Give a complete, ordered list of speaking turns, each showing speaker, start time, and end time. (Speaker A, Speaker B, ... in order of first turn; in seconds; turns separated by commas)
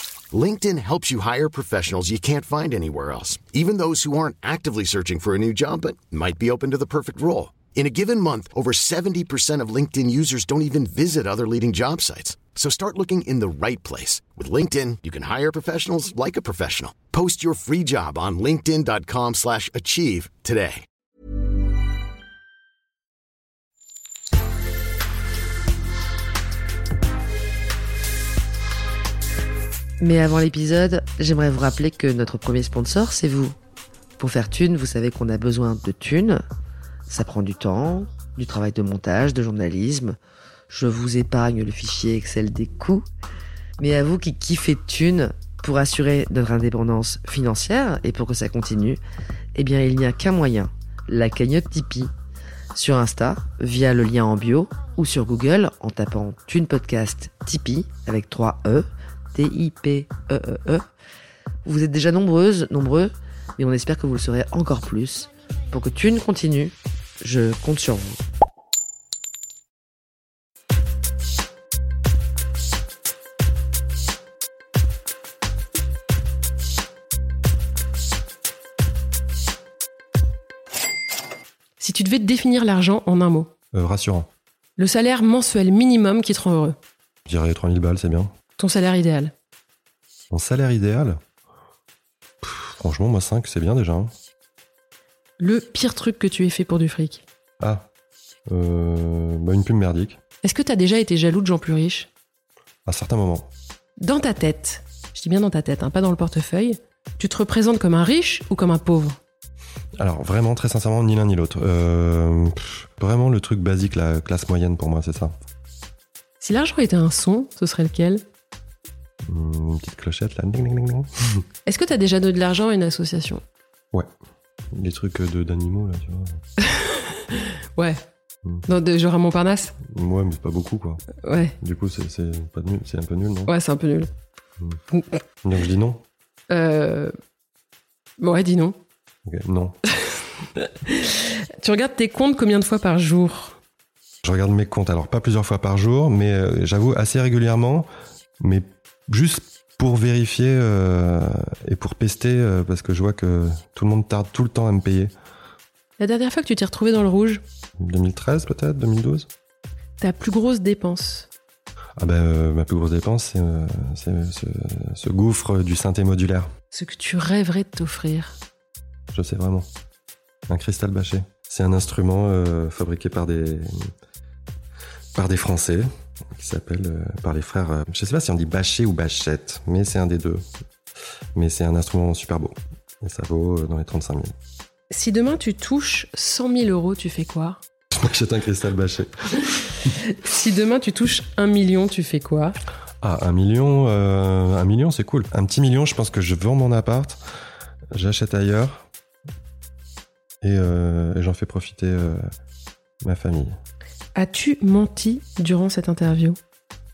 Speaker A: 0.3-20.8, Speaker B: 30.0-33.5, Speaker B: 34.2-36.4, Speaker B: 37.1-40.1, Speaker B: 40.7-43.0, Speaker B: 43.8-49.0, Speaker B: 49.5-52.1, Speaker B: 52.7-60.8, Speaker B: 61.6-68.2, Speaker C: 81.8-83.5, Speaker D: 83.7-84.3, Speaker C: 84.8-86.8, Speaker D: 87.3-88.3, Speaker C: 88.6-89.3, Speaker D: 90.3-91.2, Speaker D: 92.4-94.1, Speaker C: 95.4-97.2, Speaker D: 97.6-97.9, Speaker D: 98.5-100.2, Speaker C: 100.4-102.1, Speaker D: 102.8-103.5, Speaker C: 104.0-109.2, Speaker D: 110.0-115.3, Speaker C: 116.4-118.2, Speaker D: 119.3-121.4, Speaker C: 121.7-123.4, Speaker D: 124.7-126.4, Speaker C: 126.7-128.0, Speaker C: 128.7-129.7, Speaker D: 129.8-131.1, Speaker C: 131.2-131.5, Speaker D: 131.6-133.5, Speaker C: 133.5-134.1, Speaker C: 134.9-135.2, Speaker D: 135.4-136.0, Speaker C: 136.5-137.1, Speaker C: 138.2-138.8, Speaker D: 139.2-139.8, Speaker C: 140.6-143.6, Speaker D: 144.2-147.9, Speaker D: 148.4-155.1, Speaker C: 156.0-157.4, Speaker D: 157.8-159.3, Speaker C: 160.0-161.3, Speaker D: 162.0-166.5, Speaker C: 166.7-168.3, Speaker D: 169.1-169.7, Speaker D: 170.5-173.9, Speaker D: 175.2-180.4, Speaker D: 181.3-184.3, Speaker C: 184.9-187.6, Speaker D: 187.9-189.5, Speaker C: 190.1-192.6, Speaker D: 193.0-197.2, Speaker D: 197.9-198.8, Speaker D: 200.4-202.2, Speaker D: 203.0-203.5, Speaker C: 204.1-206.4